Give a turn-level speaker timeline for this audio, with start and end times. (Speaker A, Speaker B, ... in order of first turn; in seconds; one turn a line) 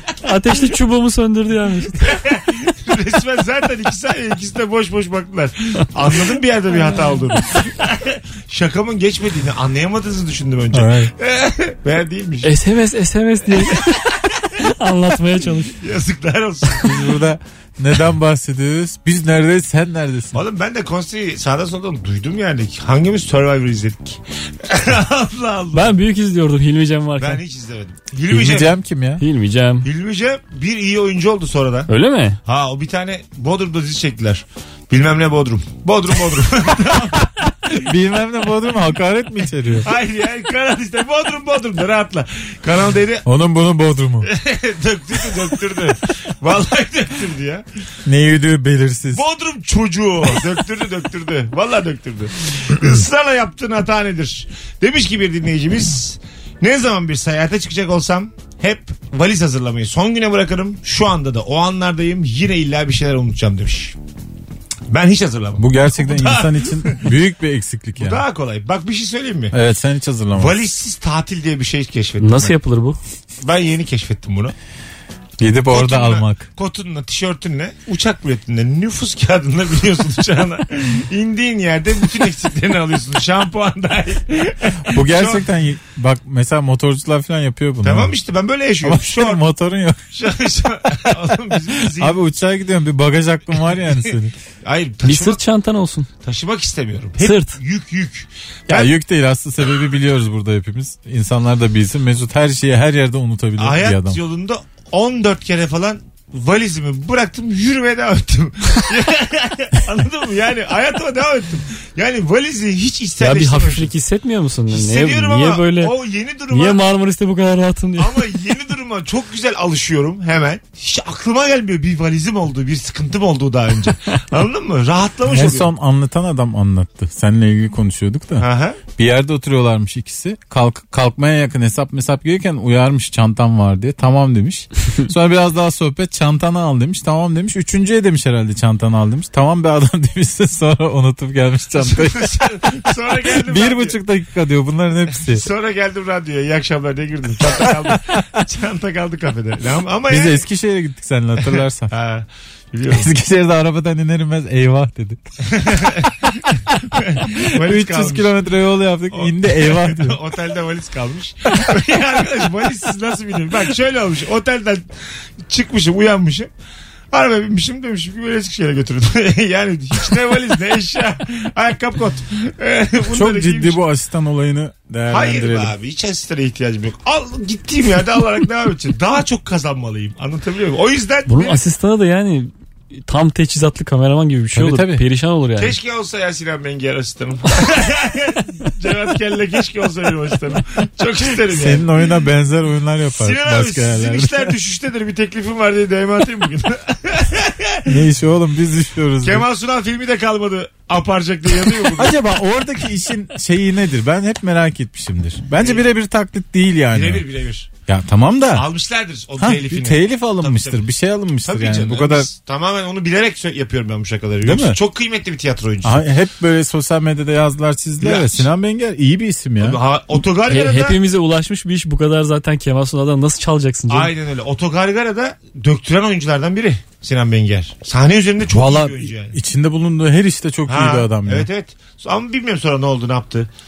Speaker A: 0.2-2.1
Speaker B: 2.0-12.5
Speaker C: 10.7-11.1
Speaker A: 12.4-15.8
Speaker B: 15.8-17.0
Speaker C: 16.8-20.4
Speaker B: 20.3-25.9
Speaker A: 25.7-27.4
Speaker B: 27.2-28.7
Speaker C: 28.3-29.2
Speaker A: 29.2-29.9
Speaker B: 29.8-31.9
Speaker A: 31.9-32.4
Speaker B: 32.4-37.8
Speaker C: 37.7-39.9
Speaker B: 39.8-43.2
Speaker C: 43.2-44.3
Speaker B: 44.2-47.6
Speaker C: 48.0-49.2
Speaker B: 49.1-64.0
Speaker B: 64.9-67.1
Speaker C: 65.6-68.2
Speaker B: 68.0-69.5
Speaker C: 69.5-70.6
Speaker B: 70.3-72.5
Speaker A: 72.2-73.0
Speaker B: 73.4-74.5
Speaker C: 75.4-76.5
Speaker B: 75.7-85.4
Speaker C: 84.9-88.1
Speaker B: 87.8-89.4
Speaker C: 88.8-90.1
Speaker B: 90.1-92.2
Speaker C: 92.0-94.3
Speaker B: 94.6-95.4
Speaker A: 95.0-96.1
Speaker B: 96.2-98.9
Speaker A: 97.2-97.5
Speaker C: 98.7-104.2
Speaker B: 103.6-113.9
Speaker A: 113.2-116.0
Speaker B: 114.7-116.8
Speaker A: 116.5-118.2
Speaker B: 118.0-125.7
Speaker C: 125.3-142.7
Speaker B: 128.4-128.8
Speaker B: 141.8-144.0
Speaker C: 143.3-145.4
Speaker B: 145.2-150.4
Speaker C: 150.1-151.9
Speaker B: 151.4-153.1
Speaker C: 152.9-156.3
Speaker B: 155.5-158.3
Speaker C: 157.2-160.2
Speaker B: 159.1-164.8
Speaker B: 165.4-166.5
Speaker B: 167.1-173.8
Speaker C: 173.1-175.7
Speaker B: 175.1-181.6
Speaker A: 181.3-185.8
Speaker C: 184.5-185.0
Speaker B: 185.6-191.9
Speaker C: 191.5-194.5
Speaker B: 193.2-198.0
Speaker C: 197.8-199.5
Speaker B: 199.2-202.2
Speaker C: 201.8-207.2
Speaker B: 205.6-205.8
Speaker B: 206.9-207.7
Speaker C: 207.9-208.7
Speaker B: 208.5-210.9
Speaker C: 209.4-212.3
Speaker B: 211.4-216.0
Speaker C: 214.4-214.8
Speaker C: 215.8-219.8
Speaker B: 218.0-218.5
Speaker B: 219.6-221.0
Speaker A: 220.5-224.1
Speaker B: 223.9-229.4
Speaker C: 228.5-231.5
Speaker B: 230.7-233.5